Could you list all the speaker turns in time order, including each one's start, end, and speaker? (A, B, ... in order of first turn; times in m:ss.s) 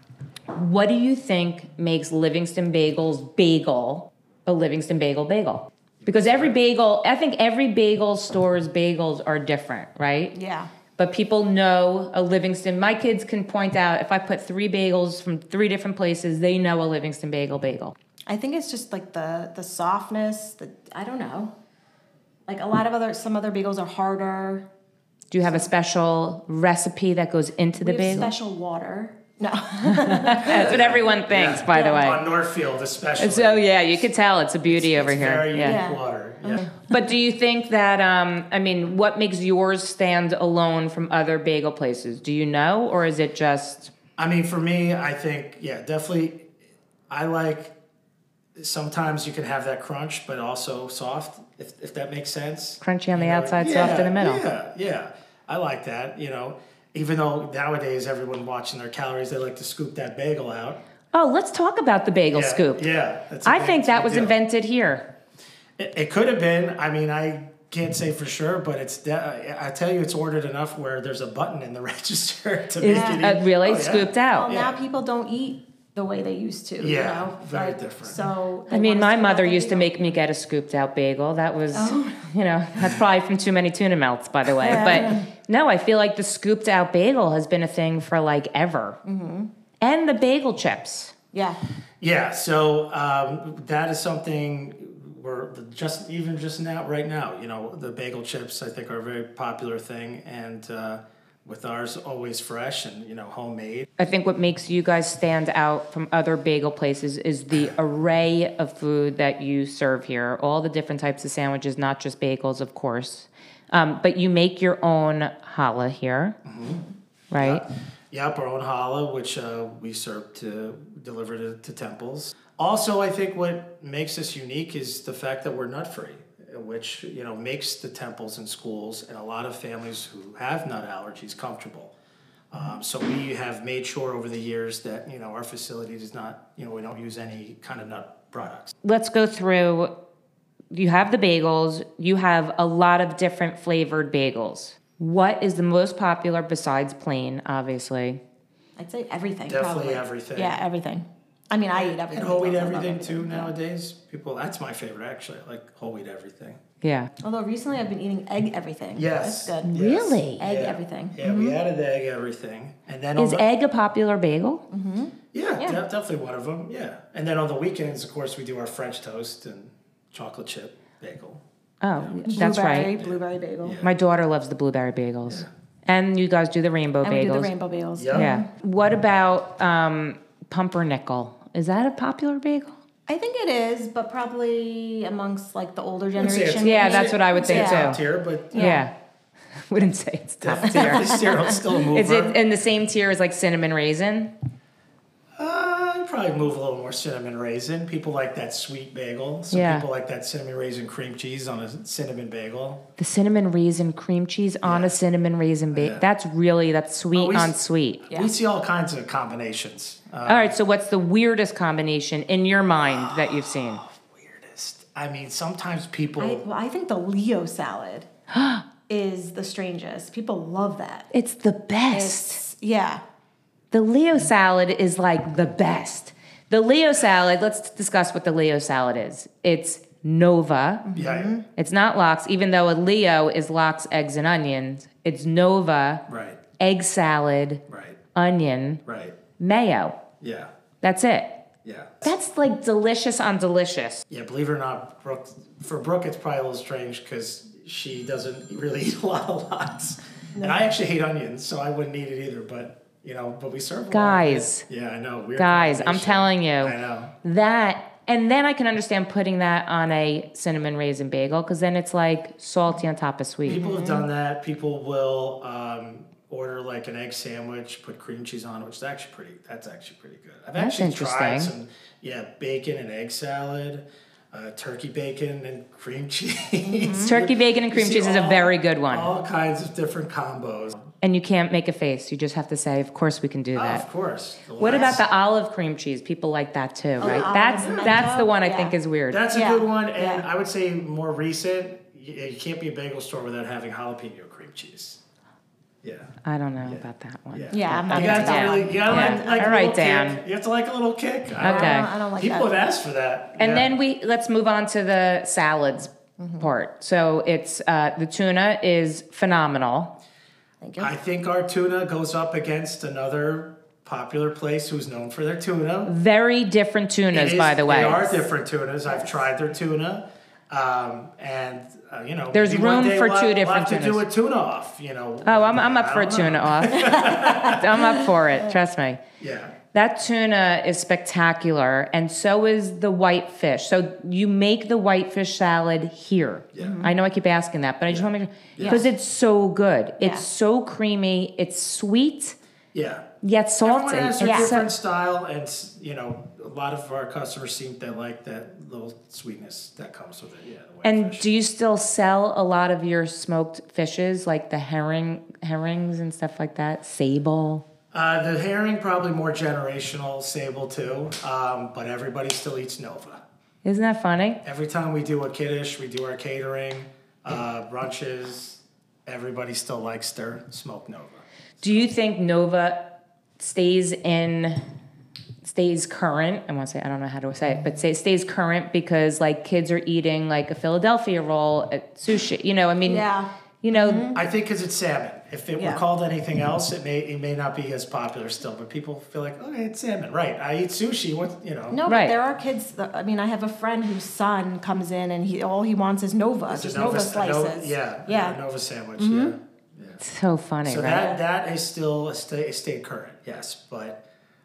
0:00.5-0:10.3 A
0:06.0-0:06.6 B
0:10.3-0:10.7 C
0:11.0-0:17.9 A
0:18.3-0:21.5 C
0:22.5-0:24.7 C
0:25.3-0:28.3 A
0:27.8-0:30.8 C
0:29.8-0:32.2 A
0:30.4-0:34.0 B
0:31.7-0:32.1 C
0:33.2-0:35.8 A
0:34.6-0:36.7 B
0:35.6-0:36.7 C
0:36.8-0:43.9 A
0:44.2-0:46.5 B
0:47.1-0:47.7 B
0:48.6-1:00.8 B
0:52.8-0:54.4 A
1:01.1-1:02.8 A
1:02.3-1:04.3 B
1:03.4-1:05.1 A
1:05.8-1:14.8 B
1:12.8-1:14.5 A
1:12.8-1:13.3 C
1:14.2-1:20.1 C
1:16.8-1:18.2 B
1:18.7-1:29.0 A
1:21.7-1:22.3 C
1:24.6-1:25.2 C
1:29.0-1:29.5 C
1:29.8-1:31.1 A
1:31.3-1:31.6 C
1:32.0-1:43.9 B
1:44.0-1:56.4 A
1:56.4-1:56.8 B
1:57.3-1:57.6 A
1:57.4-2:11.9 B
2:12.5-2:18.7 B
2:18.8-2:19.9 A
2:20.7-2:28.2 A
2:28.8-2:33.5 C
2:29.5-2:30.6 B
2:31.8-2:36.6 B
2:36.8-2:37.1 A
2:37.2-2:39.7 C
2:38.9-2:43.4 B
2:39.6-2:40.4 A
2:40.4-2:41.6 C
2:43.2-2:44.6 A
2:44.7-2:45.8 C
2:45.3-2:51.4 B
2:51.8-2:52.9 A
2:51.9-2:52.3 B
2:52.3-2:53.8 C
2:53.0-2:53.9 B
2:53.8-2:57.5 A
2:57.0-2:58.4 C
2:58.0-2:58.3 B
2:58.1-3:02.7 A
3:03.1-3:08.0 C
3:06.2-3:08.8 B
3:06.6-3:08.0 A
3:08.5-3:08.8 C
3:08.5-3:08.9 A
3:09.7-3:14.3 A
3:10.4-3:12.4 B
3:10.6-3:11.5 C
3:15.4-3:22.8 B
3:19.5-3:19.8 A
3:23.0-3:28.0 A
3:24.6-3:25.0 B
3:25.7-3:26.0 B
3:27.1-3:30.6 B
3:30.2-3:33.8 A
3:32.8-3:36.4 B
3:36.2-3:38.1 C
3:38.3-3:38.6 A
3:38.9-3:41.1 C
3:41.1-3:42.4 A
3:41.9-3:43.0 C
3:43.7-3:50.8 A
3:50.8-3:51.4 C
3:50.9-3:51.3 B
3:51.6-3:56.0 A
3:56.1-3:56.4 B
3:56.6-3:57.6 A
3:57.7-3:58.0 B
3:58.1-3:58.8 A
3:58.8-3:59.2 B
3:59.4-4:00.0 A
4:00.2-4:00.5 B
4:00.8-4:01.4 A
4:01.6-4:02.1 B
4:02.0-4:04.0 A
4:04.1-4:17.1 B
4:10.3-4:10.6 C
4:13.9-4:14.6 A
4:15.4-4:23.6 A
4:23.4-4:40.9 B
4:23.5-4:24.0 C
4:30.6-4:31.5 A
4:36.6-4:37.1 C
4:37.0-4:39.1 A
4:41.0-4:43.8 A
4:43.5-4:45.0 B
4:44.6-4:49.2 A
4:44.7-4:44.9 C
4:47.0-4:48.7 C
4:47.0-4:48.0 B
4:49.1-4:55.0 B
4:49.3-4:50.2 C
4:55.8-5:03.7 B
4:56.2-5:00.2 A
4:57.5-4:59.6 C
5:01.4-5:01.9 A
5:01.4-5:02.6 C
5:03.4-5:09.9 A
5:06.2-5:06.5 C
5:10.6-5:10.9 C
5:10.8-5:15.9 B
5:15.8-5:18.1 A
5:17.1-5:27.8 B
5:18.9-5:19.2 C
5:22.3-5:24.0 A
5:25.2-5:29.0 A
5:26.8-5:27.6 C
5:29.2-5:29.6 B
5:29.7-5:42.4 A
5:36.5-5:36.8 B
5:36.6-5:36.9 C
5:37.9-5:38.9 B
5:38.6-5:38.9 C
5:40.0-5:40.2 C
5:42.7-5:43.0 B
5:43.2-5:44.7 A
5:43.6-5:51.2 B
5:44.2-5:44.6 C
5:50.8-5:57.6 A
5:57.9-6:03.2 B
6:03.6-6:04.4 A
6:04.4-6:11.9 B
6:11.6-6:14.6 A
6:15.4-6:23.1 A
6:22.8-6:24.2 C
6:23.6-6:24.1 A
6:24.1-6:31.8 B
6:25.6-6:25.8 C
6:31.7-6:38.4 C
6:31.8-6:32.1 A
6:36.5-6:40.0 B
6:39.0-6:39.3 C
6:40.0-6:41.1 A
6:40.6-6:44.0 B
6:40.9-6:41.2 C